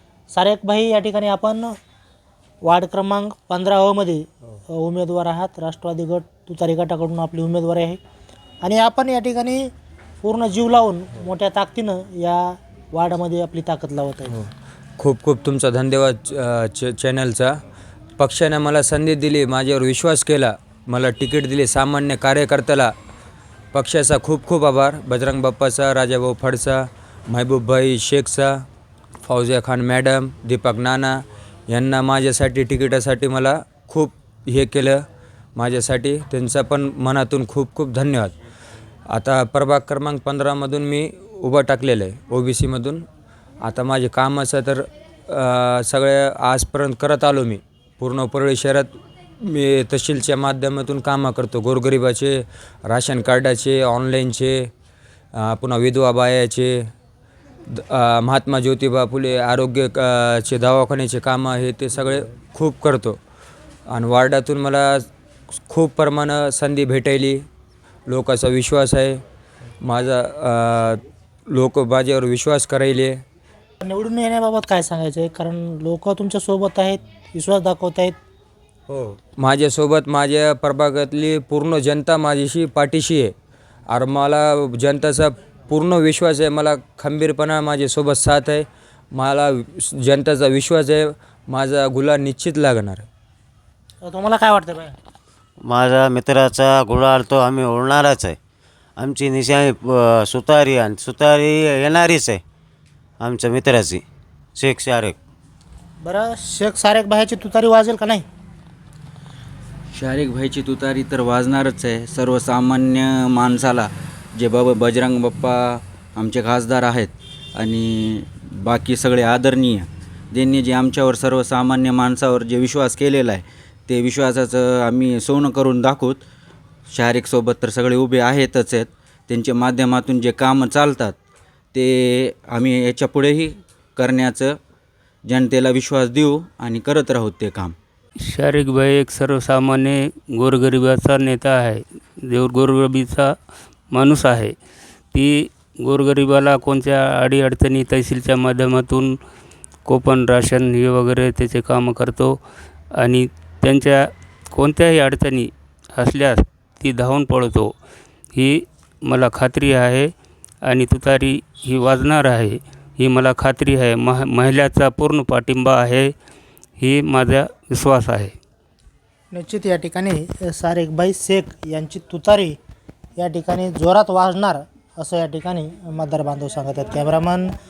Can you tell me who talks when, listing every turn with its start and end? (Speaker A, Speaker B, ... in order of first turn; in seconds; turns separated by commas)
Speaker A: 0.3-1.8, Speaker A: 2.6-8.0, Speaker A: 8.6-9.7, Speaker A: 10.2-14.4, Speaker B: 15.0-17.6, Speaker B: 18.2-22.9, Speaker B: 23.7-28.6, Speaker B: 29.2-35.0, Speaker B: 35.6-38.3, Speaker B: 39.1-43.0, Speaker B: 43.6-54.7, Speaker B: 55.4-56.9, Speaker B: 57.7-63.2, Speaker B: 63.9-65.0, Speaker B: 65.7-67.5, Speaker B: 68.1-69.2, Speaker B: 69.8-73.2, Speaker A: 73.8-78.2, Speaker B: 79.0-83.3, Speaker B: 83.9-93.1, Speaker A: 94.0-95.0, Speaker C: 95.6-98.4, Speaker C: 99.0-102.4, Speaker C: 103.2-104.0, Speaker C: 104.6-105.2, Speaker A: 106.0-108.3, Speaker D: 109.9-126.2, Speaker D: 126.9-131.2, Speaker D: 131.7-134.6, Speaker D: 135.2-137.8, Speaker E: 138.2-143.3, Speaker E: 143.9-144.6, Speaker E: 145.1-149.2, Speaker E: 149.8-152.4, Speaker E: 152.9-157.7, Speaker E: 158.3-160.1, Speaker E: 160.6-166.1, Speaker E: 166.8-168.3, Speaker A: 169.3-172.6, Speaker A: 173.2-177.6